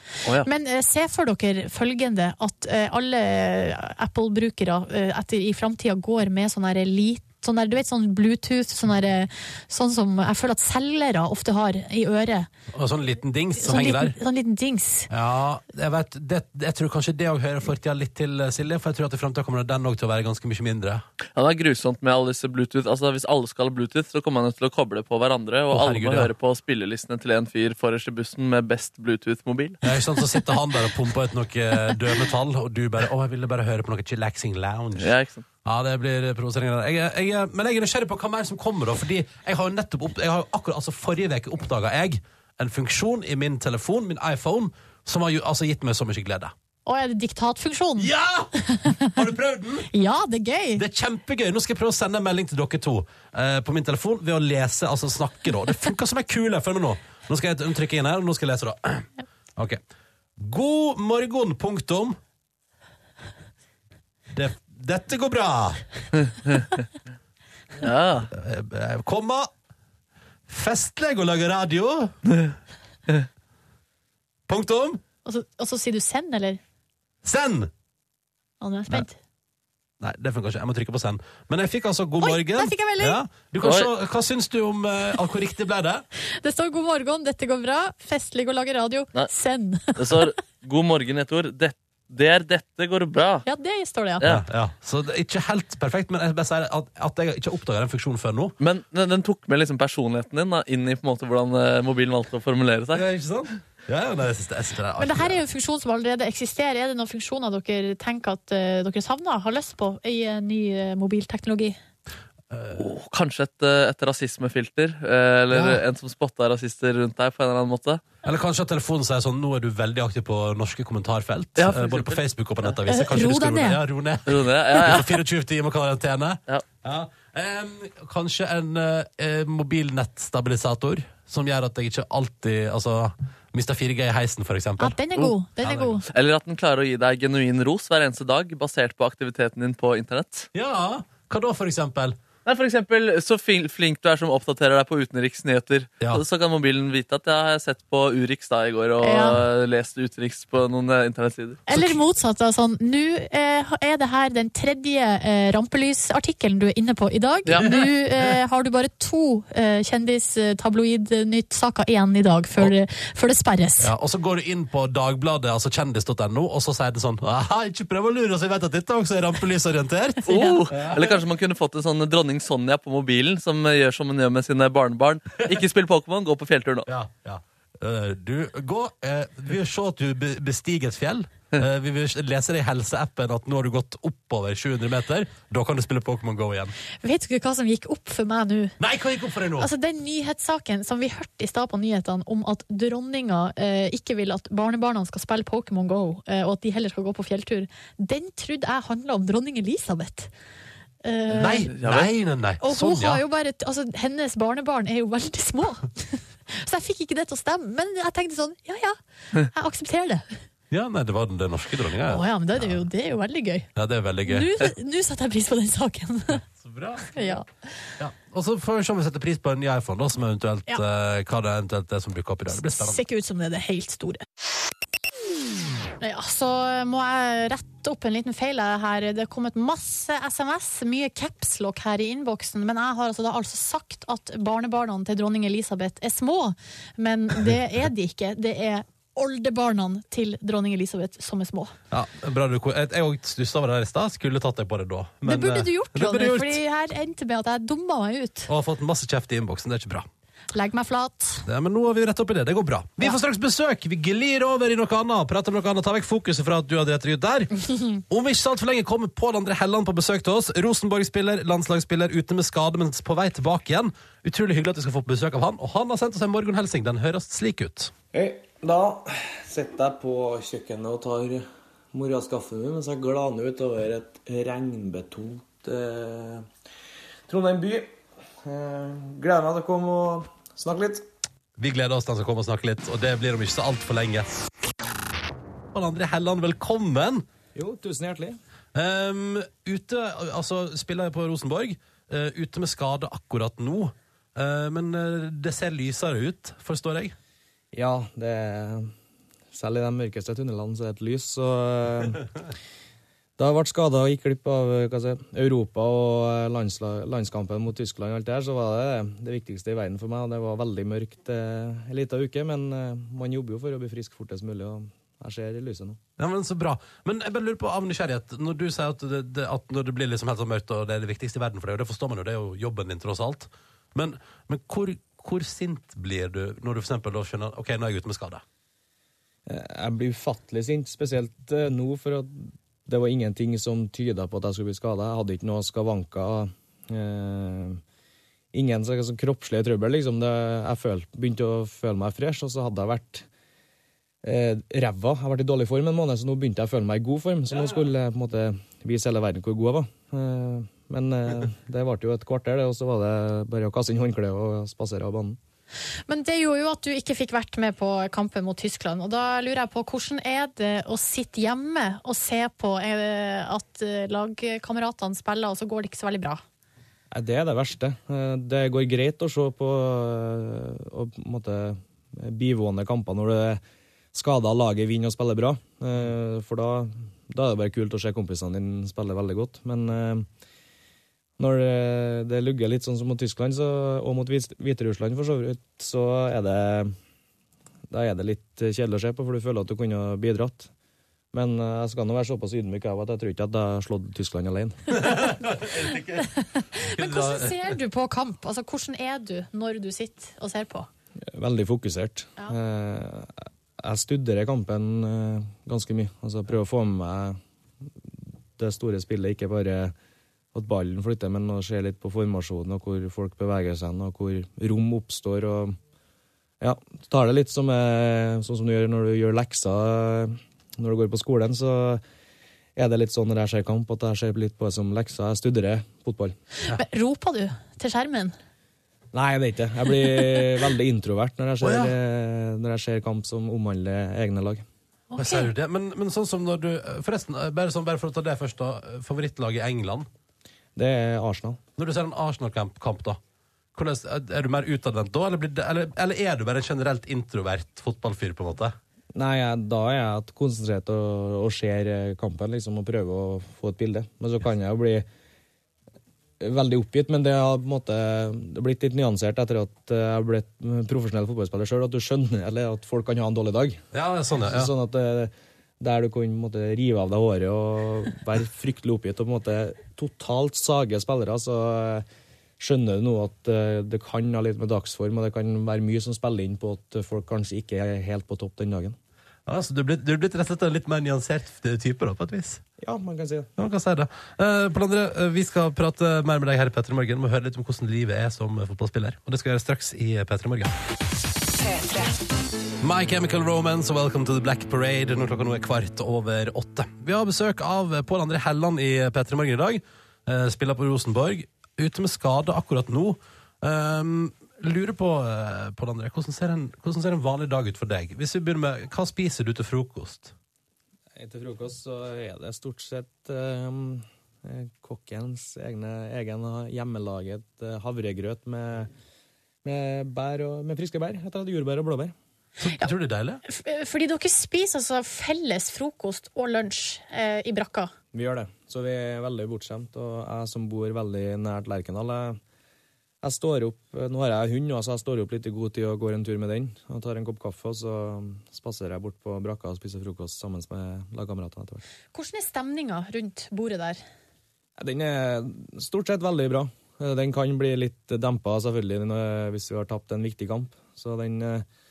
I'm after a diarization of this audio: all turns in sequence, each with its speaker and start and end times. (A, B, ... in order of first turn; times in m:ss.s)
0:00.4-0:12.5 A
0:12.7-0:14.2 B
0:13.6-0:15.1 A
0:15.1-0:21.0 B
0:21.3-0:29.8 C
0:25.7-0:26.3 B
0:29.8-0:35.1 B
0:35.0-0:35.4 C
0:35.6-0:46.5 B
0:46.8-0:48.1 A
0:48.0-0:49.9 B
0:48.6-0:49.1 A
0:49.9-0:50.8 A
0:50.8-0:59.8 B
1:00.4-1:02.2 B
1:04.3-1:05.8 B
1:07.8-1:08.3 C
1:08.3-1:09.5 B
1:10.5-1:12.1 B
1:14.5-1:15.0 B
1:15.2-1:16.6 A
1:17.2-1:17.7 B
1:18.6-1:19.2 A
1:20.0-1:26.0 B
1:22.2-1:23.2 A
1:23.6-1:23.9 C
1:26.4-1:30.2 A
1:29.9-1:33.4 C
1:33.4-1:34.2 A
1:34.2-1:38.5 B
1:38.6-1:43.0 C
1:42.9-1:45.4 B
1:45.0-1:51.8 A
1:52.5-1:52.8 B
1:52.7-1:58.0 C
1:55.5-1:55.8 B
1:58.2-2:15.0 B
2:01.6-2:02.2 C
2:02.9-2:03.8 A
2:04.3-2:05.2 C
2:14.8-2:16.0 A
2:15.6-2:16.0 B
2:16.1-2:20.5 C
2:20.5-2:22.2 B
2:22.4-2:31.6 C
2:29.0-2:29.4 A
2:31.7-2:43.9 A
2:31.7-2:32.0 B
2:37.4-2:37.7 C
2:37.6-2:37.9 B
2:43.8-2:51.2 B
2:50.3-2:56.9 C
2:50.3-2:50.6 A
2:56.9-3:06.7 B
3:07.0-3:08.8 A
3:08.8-3:09.7 B
3:09.6-3:20.3 A
3:21.0-3:21.7 A
3:21.3-3:23.2 B
3:21.7-3:22.1 C
3:22.6-3:30.3 A
3:30.7-3:32.9 B
3:32.1-3:33.7 A
3:33.7-3:34.5 B
3:34.2-3:36.4 A
3:36.4-3:37.2 B
3:37.1-3:37.4 A
3:38.0-3:43.0 B
3:42.5-3:44.2 A
3:46.0-4:01.7 A
4:01.9-4:06.6 B
4:05.2-4:08.5 A
4:08.5-4:10.1 B
4:10.5-4:11.4 A
4:11.4-4:27.9 B
4:28.1-4:36.5 D
4:37.3-4:37.9 D
4:38.4-4:41.0 D
4:41.6-4:44.4 B
4:45.7-4:47.2 B
4:47.5-4:48.4 D
4:48.7-4:57.1 B
4:57.7-4:58.9 D
4:59.5-5:02.2 D
5:03.4-5:16.0 D
5:16.2-5:28.4 B
5:29.5-5:37.8 D
5:38.5-5:43.2 D
5:44.2-5:55.4 D
5:56.1-6:06.4 A
6:07.1-6:13.6 D
6:14.1-6:20.3 D
6:21.4-6:26.9 D
6:27.9-6:30.7 D
6:31.3-6:34.8 D
6:34.9-6:36.3 B
6:35.0-6:40.9 A
6:36.9-6:37.8 B
6:41.3-6:47.4 D
6:48.6-6:49.9 D
6:50.5-6:55.8 D
6:56.6-7:02.0 D
7:02.8-7:06.4 D
7:06.6-7:08.3 A
7:09.1-7:14.6 D
7:11.6-7:11.9 B
7:15.1-7:15.5 A
7:15.2-7:20.1 B
7:20.8-7:21.6 D
7:21.8-7:23.2 B
7:23.7-7:28.8 B
7:29.1-7:35.0 D
7:36.4-7:43.8 D
7:43.9-7:44.7 B
7:44.5-7:52.0 D
7:52.6-7:59.0 D
7:59.4-8:02.6 B
8:02.8-8:03.5 D
8:03.6-8:10.7 B
8:12.8-8:30.3 B
8:31.2-8:38.9 D
8:39.6-8:42.1 D
8:42.6-8:43.4 B
8:43.4-8:47.9 A
8:48.1-8:52.4 D
8:53.2-9:01.8 D
9:02.1-9:04.0 A
9:04.8-9:11.6 D